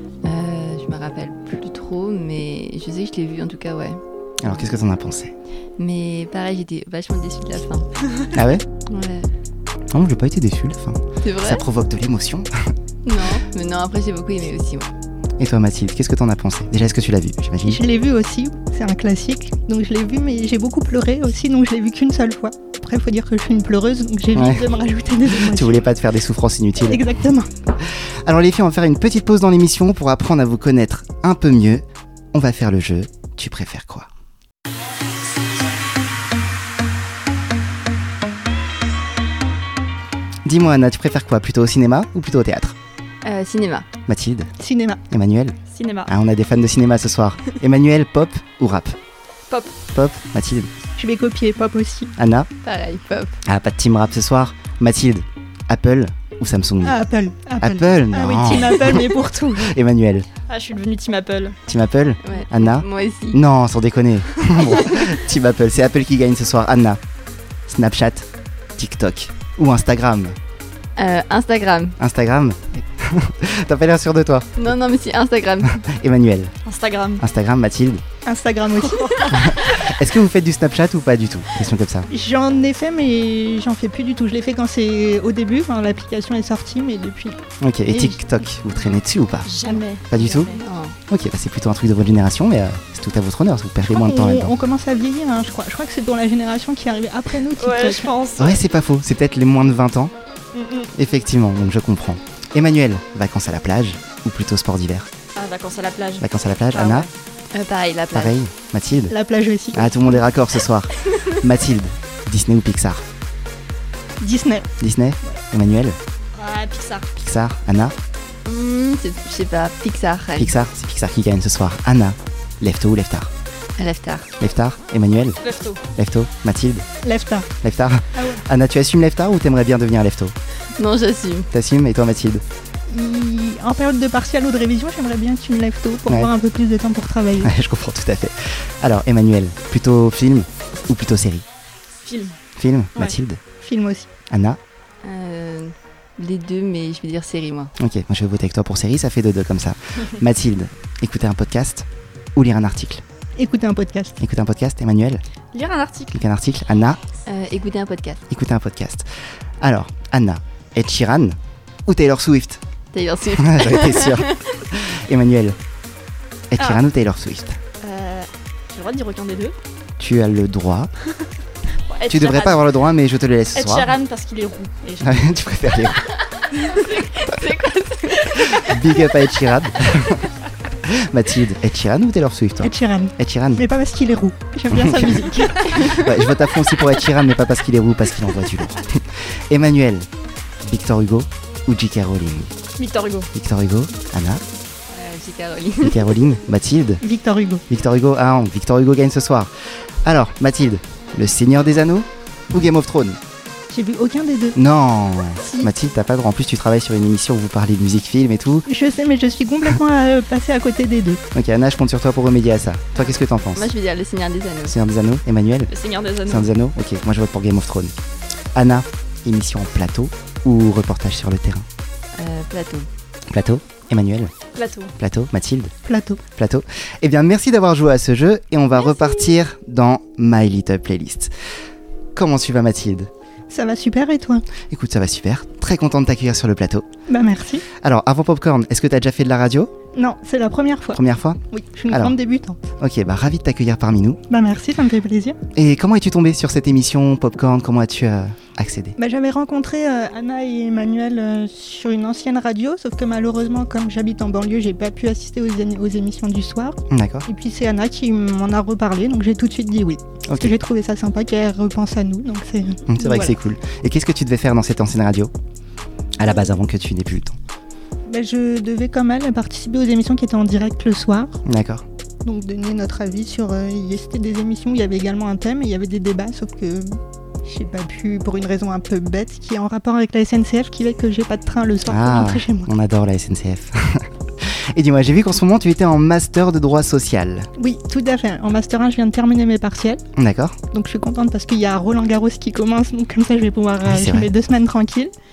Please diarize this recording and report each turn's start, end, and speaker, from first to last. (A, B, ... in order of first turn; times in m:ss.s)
0:00.2-0:04.7 A
0:04.4-0:05.3 B
0:05.8-0:07.9 A
0:08.3-0:08.6 B
0:08.9-0:09.3 A
0:09.9-0:12.5 B
0:11.2-0:11.6 A
0:13.0-0:14.9 A
0:15.4-0:17.8 B
0:17.6-0:25.9 C
0:24.3-0:24.7 B
0:25.3-0:27.2 B
0:26.8-0:27.5 C
0:28.2-0:34.1 B
0:40.4-0:42.8 B
0:43.2-0:43.9 A
0:44.1-0:44.5 B
0:44.6-0:45.0 C
0:45.1-0:49.0 B
0:45.7-0:46.1 D
0:49.5-0:49.7 D
0:49.9-0:50.7 B
0:51.0-0:52.1 C
0:52.2-0:52.5 B
0:52.6-0:53.4 A
0:53.4-0:57.0 B
0:56.8-0:59.7 C
0:57.6-1:00.3 B
1:00.5-1:01.6 D
1:01.7-1:07.0 B
1:02.2-1:03.4 A
1:07.7-1:10.4 B
1:11.0-1:12.0 A
1:12.0-1:14.7 B
1:14.6-1:15.8 A
1:15.6-1:16.5 B
1:16.6-1:17.2 D
1:17.2-1:18.0 B
1:18.2-1:19.7 C
1:19.3-1:22.1 B
1:22.1-1:28.2 C
1:27.6-1:29.5 B
1:29.4-1:30.6 D
1:30.1-1:30.6 B
1:30.5-1:31.0 A
1:31.1-1:34.5 B
1:33.9-1:38.1 C
1:37.6-1:38.6 D
1:38.4-1:40.1 B
1:40.5-1:40.9 D
1:40.9-1:45.1 B
1:45.4-1:47.1 D
1:46.2-1:47.1 B
1:47.5-1:48.4 A
1:48.1-1:49.1 B
1:49.1-1:50.0 C
1:49.7-1:53.0 B
1:54.2-1:54.7 C
1:54.8-1:56.0 B
1:56.4-1:57.1 D
1:57.2-1:58.0 B
1:58.4-2:00.5 A
2:00.4-2:03.3 B
2:03.8-2:04.3 A
2:04.4-2:05.4 B
2:05.4-2:05.8 D
2:06.0-2:06.8 B
2:07.0-2:07.5 C
2:07.6-2:10.3 B
2:08.1-2:08.4 C
2:10.8-2:11.5 A
2:11.5-2:12.4 B
2:12.9-2:17.5 C
2:16.1-2:16.3 B
2:17.4-2:21.4 B
2:22.0-2:22.4 D
2:22.6-2:23.4 B
2:23.6-2:24.1 C
2:24.3-2:24.6 B
2:25.0-2:27.7 A
2:27.8-2:33.0 B
2:33.4-2:34.2 C
2:34.2-2:35.2 B
2:35.5-2:36.2 D
2:36.1-2:37.0 B
2:37.3-2:38.2 A
2:38.3-2:39.0 B
2:39.6-2:42.6 B
2:42.9-2:44.6 A
2:43.3-2:45.6 B
2:46.5-2:47.6 B
2:47.8-2:49.5 D
2:50.0-2:50.9 B
2:51.9-2:52.7 D
2:52.1-2:53.9 B
2:53.5-2:55.2 D
2:55.0-2:56.0 B
2:56.6-2:57.0 D
2:56.6-2:58.4 A
2:58.3-2:58.6 D
2:58.5-3:00.3 B
3:00.8-3:03.6 B
3:02.6-3:06.0 C
3:04.7-3:10.1 B
3:10.6-3:12.5 B
3:12.8-3:13.3 D
3:13.3-3:14.4 B
3:14.9-3:16.2 A
3:15.8-3:17.0 B
3:17.0-3:17.6 C
3:17.7-3:19.5 B
3:20.0-3:23.2 B
3:23.7-3:24.6 C
3:24.6-3:28.6 B
3:28.6-3:31.2 C
3:31.3-3:33.7 B
3:33.5-3:34.8 A
3:34.6-3:35.7 B
3:35.7-3:36.5 D
3:36.2-3:38.0 B
3:38.5-3:41.6 B
3:42.2-3:42.9 A
3:43.3-3:44.3 B
3:44.5-3:44.9 D
3:45.0-3:45.7 B
3:45.8-3:46.2 C
3:46.4-3:51.3 B
3:52.1-3:53.1 B
3:53.5-3:54.4 C
3:54.7-3:56.8 B
3:57.1-3:57.6 C
3:57.8-3:59.7 B
3:59.9-4:02.6 C
4:00.9-4:02.2 B
4:02.8-4:04.2 B
4:04.3-4:05.4 C
4:05.5-4:09.0 B
4:09.0-4:23.3 C
4:16.9-4:17.3 B
4:20.3-4:20.6 B
4:22.9-4:25.3 B
4:26.2-4:27.4 B
4:28.1-4:31.4 C
4:31.4-4:31.8 B
4:32.2-4:42.7 C
4:41.9-4:47.5 B
4:47.6-4:50.0 C
4:50.2-4:50.6 B
4:50.7-4:55.1 C
4:53.8-4:54.3 B